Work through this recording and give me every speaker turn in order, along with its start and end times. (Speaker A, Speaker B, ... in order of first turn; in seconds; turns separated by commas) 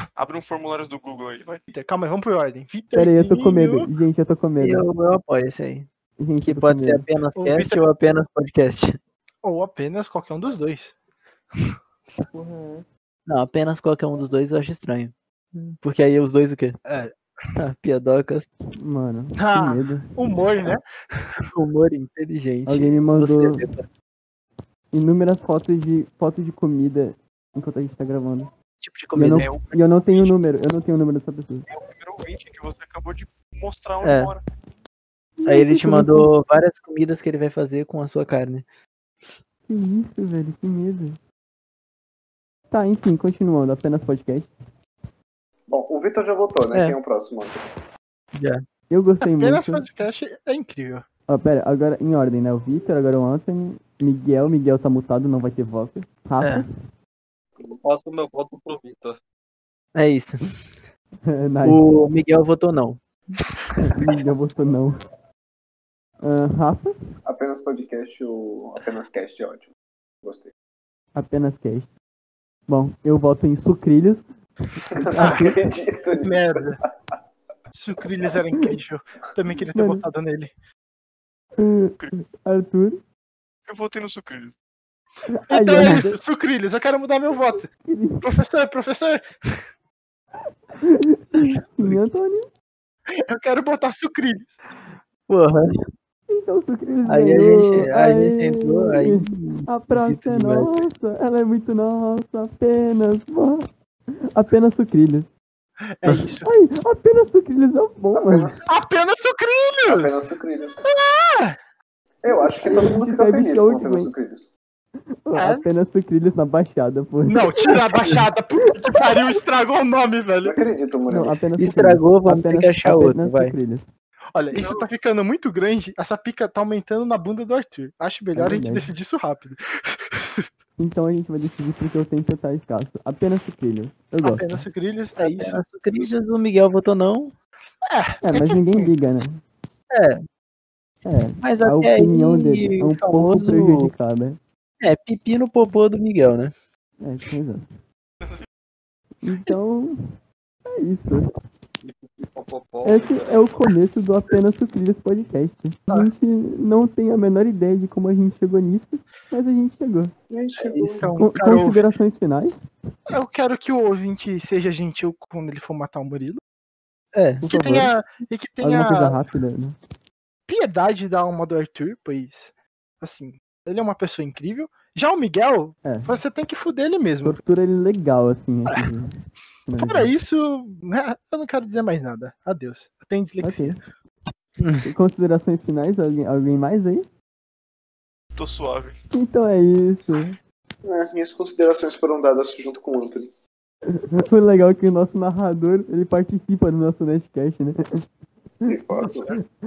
Speaker A: 0.2-1.6, Speaker B: 1.7-3.9, Speaker C: 2.9-4.8, Speaker D: 4.6-5.9, Speaker C: 6.2-7.0, Speaker D: 6.4-9.0, Speaker B: 7.4-7.8, Speaker B: 9.4-11.0, Speaker C: 12.3-12.8, Speaker D: 13.3-16.8, Speaker B: 16.9-17.1, Speaker D: 17.6-18.5, Speaker C: 18.8-20.2, Speaker B: 19.4-21.3, Speaker D: 21.5-23.9, Speaker C: 22.7-23.7, Speaker C: 24.9-28.5, Speaker D: 28.8-29.5, Speaker C: 29.1-31.7, Speaker A: 29.4-30.4, Speaker A: 31.7-34.4, Speaker D: 34.0-34.3, Speaker C: 35.4-36.3, Speaker D: 35.5-38.6, Speaker C: 39.7-41.2, Speaker C: 42.7-44.5, Speaker E: 45.7-47.6, Speaker D: 48.3-48.6, Speaker C: 48.9-49.9, Speaker B: 49.2-51.0, Speaker C: 51.3-56.7, Speaker D: 56.4-56.7, Speaker F: 57.8-59.2, Speaker D: 60.0-60.6, Speaker C: 61.3-61.8, Speaker D: 61.6-63.0, Speaker C: 63.8-65.0, Speaker C: 66.2-66.9, Speaker E: 67.3-69.7, Speaker E: 70.2-70.5, Speaker C: 71.2-71.9, Speaker C: 72.7-74.2, Speaker E: 74.9-76.7, Speaker D: 75.2-75.5, Speaker B: 75.2-75.5, Speaker B: 76.2-76.8, Speaker B: 77.7-80.5, Speaker C: 79.8-80.1, Speaker C: 81.6-83.0, Speaker A: 83.7-84.6, Speaker C: 85.3-86.2, Speaker B: 85.5-87.7, Speaker C: 87.9-88.3, Speaker B: 88.2-89.6, Speaker C: 90.8-92.5, Speaker D: 91.4-91.9, Speaker B: 93.3-94.6, Speaker D: 95.3-95.8, Speaker C: 96.3-103.7, Speaker D: 97.1-100.8, Speaker C: 104.3-105.3, Speaker B: 106.0-106.5, Speaker C: 106.4-108.5, Speaker E: 108.1-108.8, Speaker B: 108.7-110.2, Speaker E: 109.9-110.8, Speaker B: 110.8-111.6, Speaker E: 112.2-114.5, Speaker C: 112.6-114.1, Speaker C: 115.3-118.2, Speaker B: 115.4-115.6, Speaker B: 117.3-120.7, Speaker E: 120.4-121.4, Speaker C: 121.1-123.9, Speaker D: 121.6-123.5, Speaker B: 124.3-130.5, Speaker A: 124.5-124.8, Speaker C: 128.3-128.9, Speaker C: 130.8-134.6, Speaker B: 134.2-135.6, Speaker D: 135.2-137.3, Speaker B: 137.8-138.9, Speaker C: 138.2-139.4, Speaker D: 139.9-140.2, Speaker C: 141.1-144.4, Speaker D: 141.4-143.9, Speaker D: 144.8-146.5, Speaker C: 147.0-147.7, Speaker A: 148.2-148.5, Speaker C: 149.2-149.9, Speaker C: 150.8-151.2, Speaker F: 151.8-153.1, Speaker C: 152.8-160.1, Speaker E: 160.3-161.1, Speaker D: 160.6-161.0, Speaker B: 161.0-161.9, Speaker C: 161.1-162.6, Speaker B: 163.1-166.4, Speaker D: 167.1-167.4, Speaker C: 167.4-167.9, Speaker B: 167.5-169.2, Speaker C: 168.6-169.8, Speaker B: 170.5-177.4, Speaker C: 175.8-176.2, Speaker C: 177.2-179.1, Speaker C: 179.7-180.1, Speaker B: 179.8-183.8, Speaker C: 183.4-183.8, Speaker D: 184.6-184.9, Speaker C: 184.8-187.1, Speaker A: 188.3-189.0, Speaker C: 189.1-190.4, Speaker E: 190.8-193.3, Speaker C: 194.2-197.8, Speaker E: 198.7-199.3